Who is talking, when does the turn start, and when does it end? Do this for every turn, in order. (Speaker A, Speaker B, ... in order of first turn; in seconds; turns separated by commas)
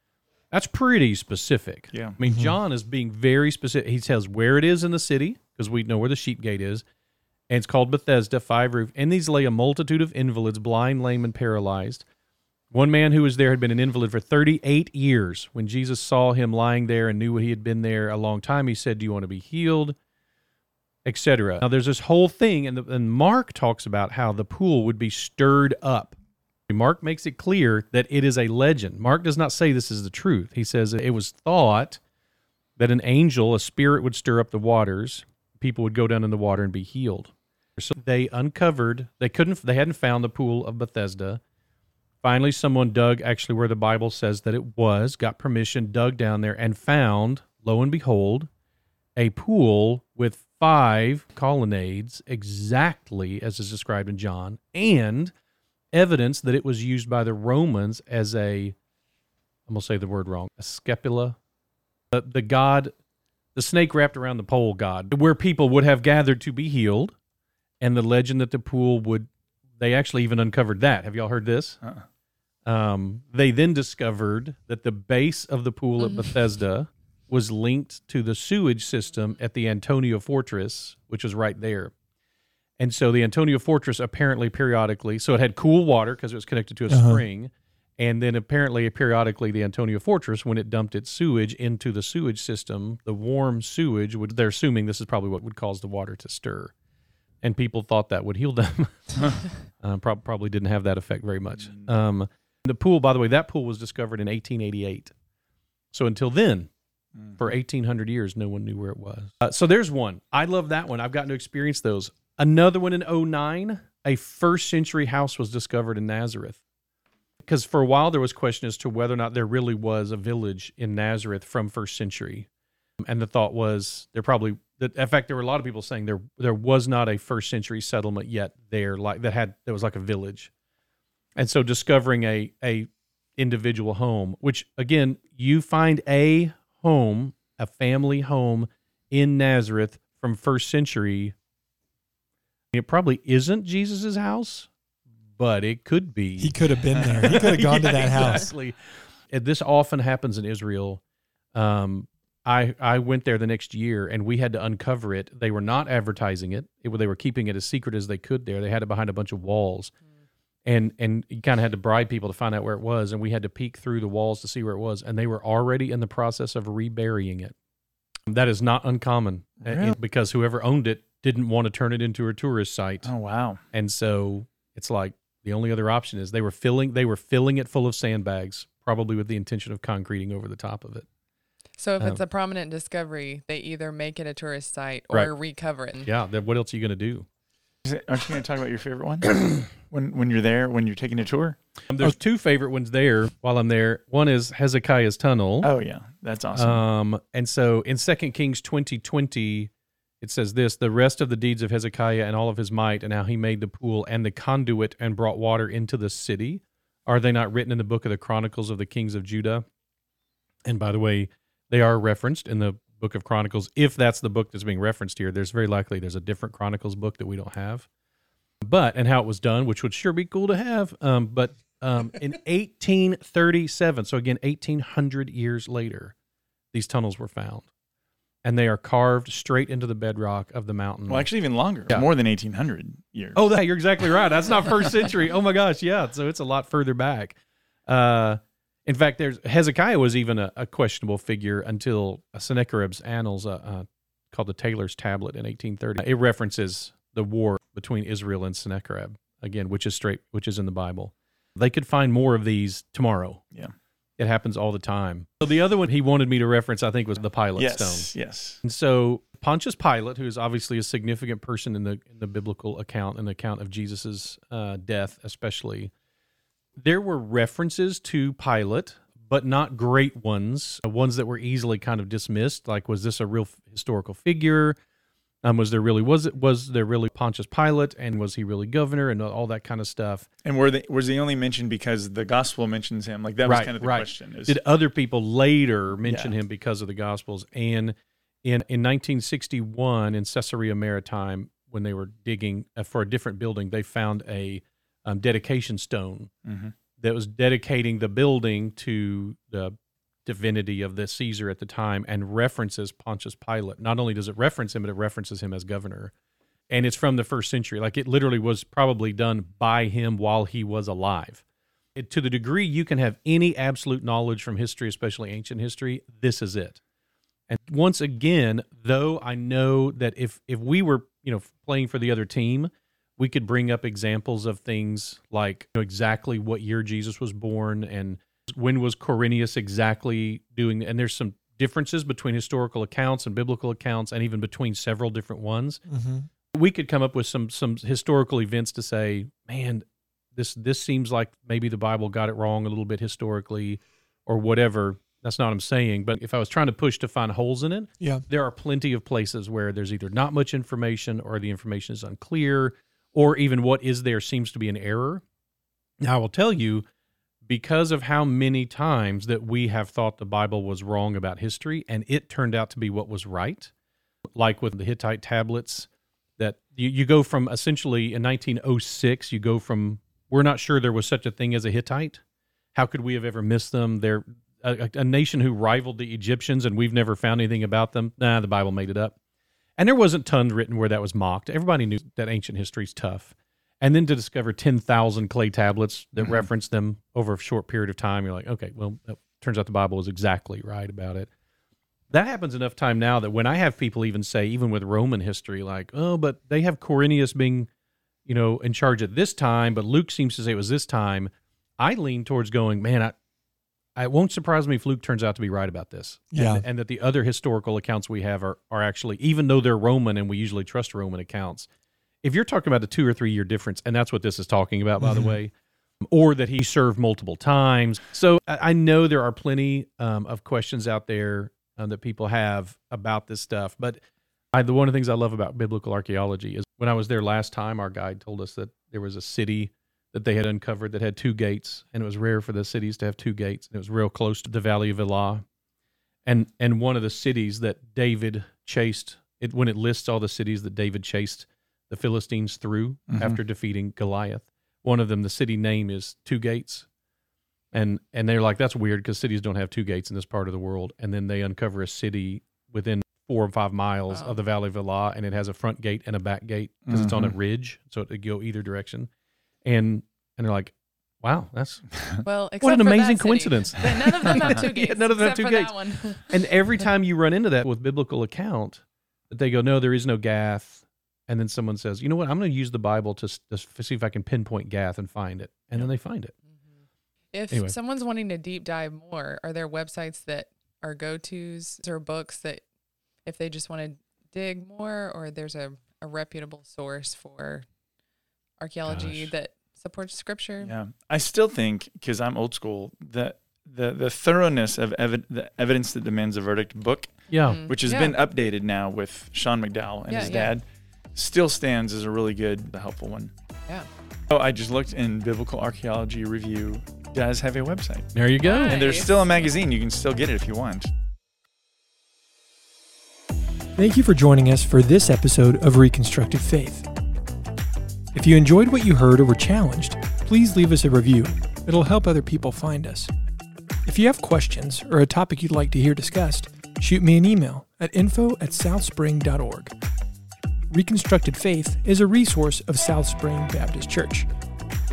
Speaker A: 0.5-6.8, Speaker B: 2.2-2.5, Speaker A: 7.5-12.1, Speaker A: 12.7-20.0, Speaker A: 21.1-26.1, Speaker A: 26.7-32.0, Speaker A: 32.8-41.4, Speaker A: 42.2-48.5, Speaker A: 49.1-55.3, Speaker A: 55.9-58.8, Speaker A: 59.7-61.4, Speaker A: 62.1-62.9, Speaker A: 63.5-67.1, Speaker A: 67.8-71.8, Speaker A: 72.6-81.9, Speaker A: 82.8-96.7, Speaker B: 86.9-87.2, Speaker A: 97.4-105.1, Speaker A: 105.9-106.7, Speaker A: 107.4-116.6, Speaker A: 117.4-122.5, Speaker A: 123.0-130.5, Speaker A: 131.4-141.3, Speaker A: 142.7-144.7, Speaker A: 145.4-148.8, Speaker B: 146.4-148.5, Speaker A: 149.3-151.0, Speaker A: 151.5-159.9, Speaker A: 160.7-167.5, Speaker A: 168.3-173.1, Speaker C: 169.6-170.0, Speaker C: 173.0-173.6, Speaker A: 173.7-181.1, Speaker D: 181.8-186.1, Speaker A: 186.0-187.3, Speaker C: 187.8-191.6, Speaker A: 191.9-195.7, Speaker C: 195.6-196.8, Speaker A: 196.6-209.6, Speaker A: 210.7-217.9, Speaker A: 218.6-226.1, Speaker A: 226.7-227.7, Speaker A: 228.4-231.3, Speaker C: 231.1-233.4, Speaker A: 233.3-237.4, Speaker A: 237.9-253.4, Speaker A: 254.2-258.1, Speaker C: 257.6-258.6, Speaker A: 258.6-265.9, Speaker A: 266.8-274.8, Speaker A: 275.4-280.3, Speaker C: 280.4-284.6, Speaker A: 283.4-296.3, Speaker C: 286.0-286.3, Speaker C: 296.4-296.7, Speaker A: 297.0-306.1, Speaker A: 306.7-311.4, Speaker A: 312.0-316.8, Speaker A: 317.5-335.8, Speaker B: 335.9-336.3, Speaker A: 336.5-355.2, Speaker B: 348.0-348.2, Speaker A: 356.0-356.9, Speaker A: 357.5-363.7, Speaker A: 364.4-372.2, Speaker A: 372.7-379.1, Speaker A: 379.8-391.3, Speaker A: 392.1-397.7, Speaker A: 398.3-403.1, Speaker A: 404.0-411.7, Speaker B: 406.3-406.6, Speaker A: 412.2-415.5, Speaker A: 416.0-424.0, Speaker A: 424.5-435.4, Speaker A: 436.2-446.9, Speaker C: 443.1-443.4, Speaker A: 447.7-459.1, Speaker D: 454.1-454.4, Speaker C: 456.9-457.3, Speaker A: 459.6-461.9, Speaker D: 462.2-466.4, Speaker A: 462.6-476.3, Speaker D: 477.3-482.6, Speaker D: 483.2-487.6, Speaker D: 488.6-490.7, Speaker A: 488.9-489.3, Speaker C: 490.6-503.3, Speaker A: 497.3-497.6, Speaker D: 497.4-498.1, Speaker D: 500.1-500.6, Speaker C: 504.3-510.9, Speaker A: 508.1-508.8, Speaker D: 508.4-509.5, Speaker E: 513.8-516.9, Speaker E: 518.1-523.1, Speaker E: 523.9-529.7, Speaker E: 530.7-534.3